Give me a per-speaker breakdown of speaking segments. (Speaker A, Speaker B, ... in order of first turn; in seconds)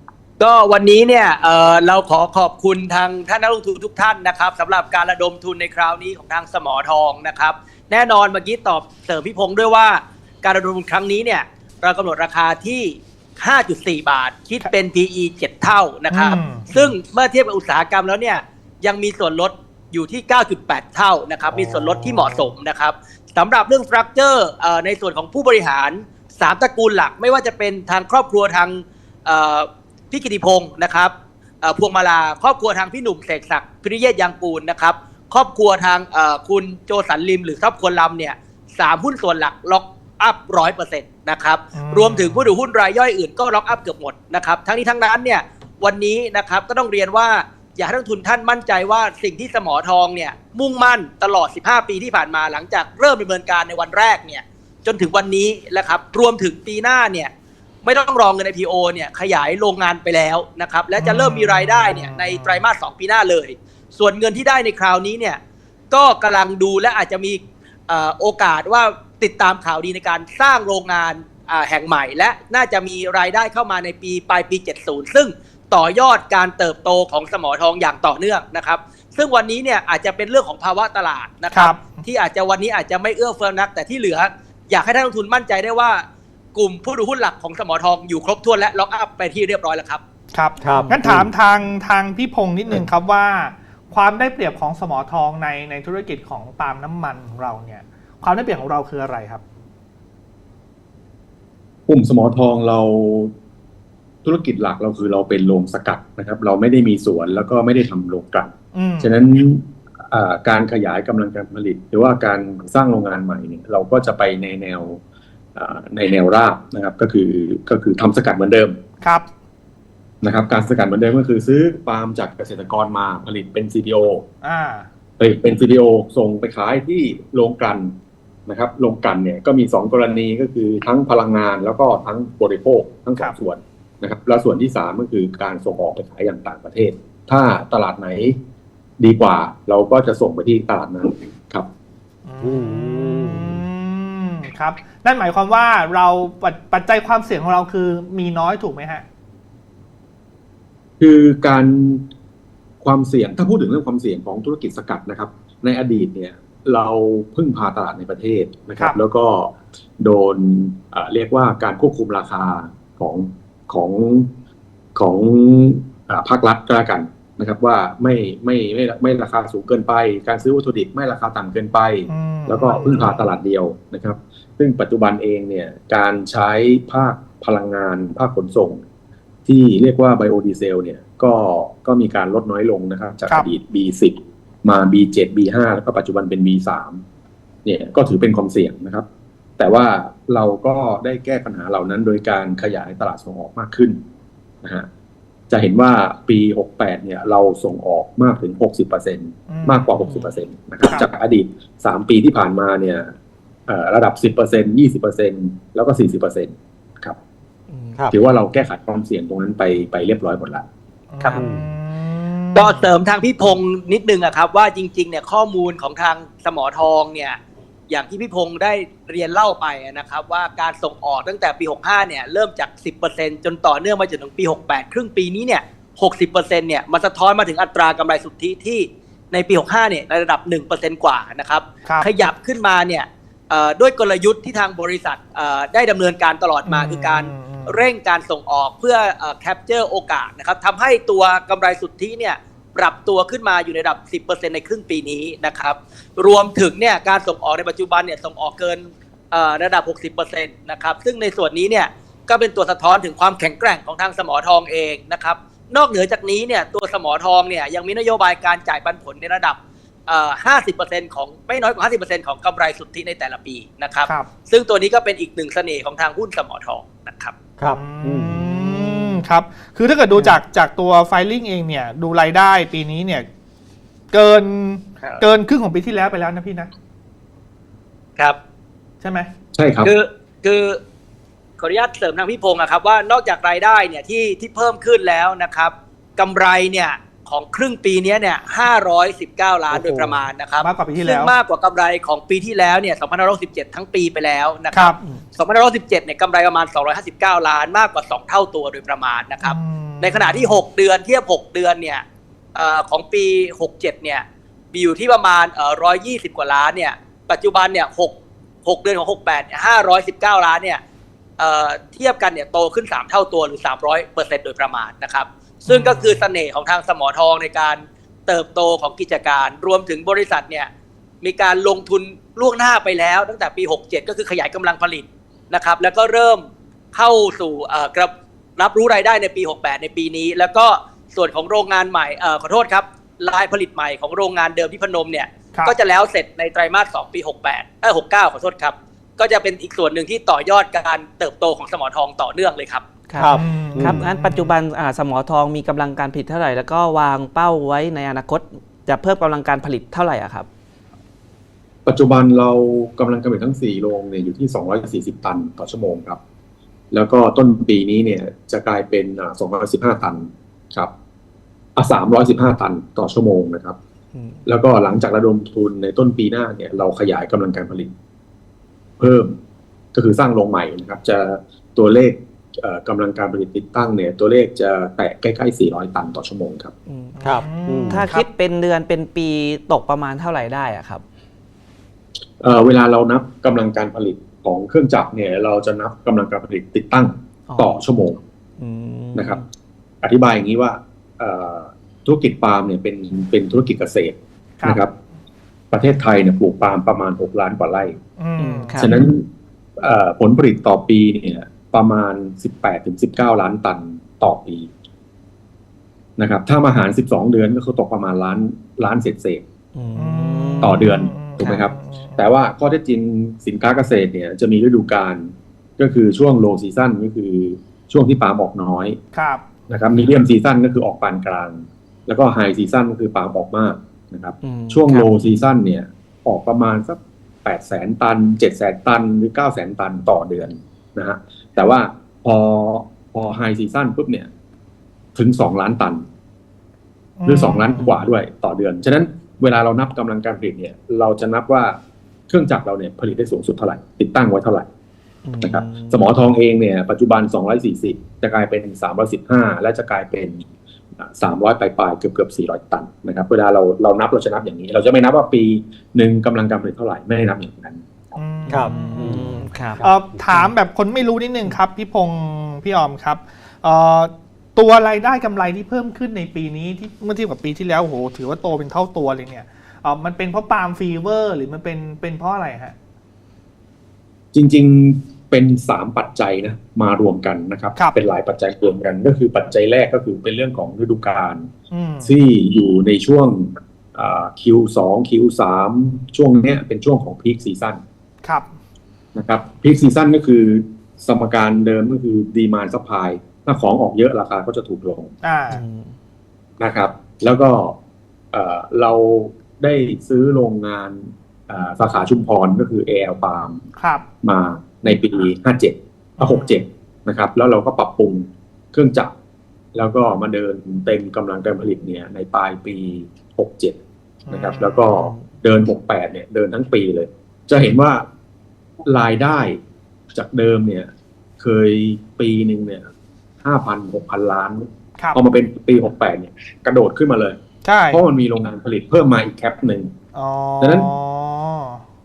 Speaker A: 0.4-57.3, 57.8-65.4, 65.9-90.0, 212.5-267.3, 279.8-280.8, 281.6-310.8, 311.4-320.7, 321.2-342.9
Speaker B: 16.1-16.9, 21.5-22.5, 41.8-42.5, 61.0-62.6, 81.5-82.0, 90.3-99.4, 108.7-109.1, 119.0-119.3, 124.4-124.9, 142.3-149.1, 172.1-173.3, 199.5-199.9, 211.1-212.9, 236.7-237.8, 267.7-273.3, 274.1-276.7, 279.0-279.3, 290.6-291.4, 294.7-295.0, 299.4-300.6, 315.7-316.3, 343.3-344.5, 377.2-378.3, 398.2-398.9, 410.0-412.2, 419.1-419.4, 437.2-437.8, 458.2-472.8, 481.7-482.1, 488.2-488.5, 495.2-495.6, 503.8-504.1, 506.2-506.6, 514.3-515.0, 527.6-528.0, 530.1-531.8
Speaker C: 90.6-91.3, 142.4-143.6, 211.4-211.7, 267.6-269.2, 289.7-290.3, 343.1-344.1, 377.2-378.1, 458.5-460.3
Speaker D: 101.9-103.3, 104.2-115.0, 115.5-118.8, 120.2-124.3, 125.2-127.9, 128.5-138.4, 139.0-141.7, 151.0-152.1, 152.8-164.3, 165.0-178.8, 179.5-187.0, 187.6-189.1, 189.6-194.0, 195.5-203.1, 203.7-207.2, 208.1-210.7, 279.6-279.9, 351.9-356.2, 356.9-360.9, 361.8-363.8, 364.5-367.9, 369.0-369.4, 369.9-376.7, 382.4-388.2, 389.1-389.4, 390.0-394.9, 395.7-398.0, 398.8-399.3, 399.8-404.7, 406.2-409.4, 410.6-419.0, 419.7-434.3, 435.2-436.1, 437.2-441.8, 442.3-444.7, 445.4-450.4, 451.0-458.1, 474.3-481.5, 482.0-487.8, 489.1-495.1, 496.6-497.8, 498.3-503.6, 504.2-509.1, 509.8-513.8, 514.3-518.1, 518.8-522.9, 523.4-527.4, 527.9-529.9, 530.6-530.9
Speaker E: 200.1-200.3, 207.7-208.0, 343.1-350.5, 364.1-364.5, 376.9-377.2, 377.9-381.0, 387.5-387.7, 388.6-389.4, 398.4-399.0, 409.8-410.9, 424.4-425.1, 445.3-446.1, 458.5-460.5, 495.5-495.9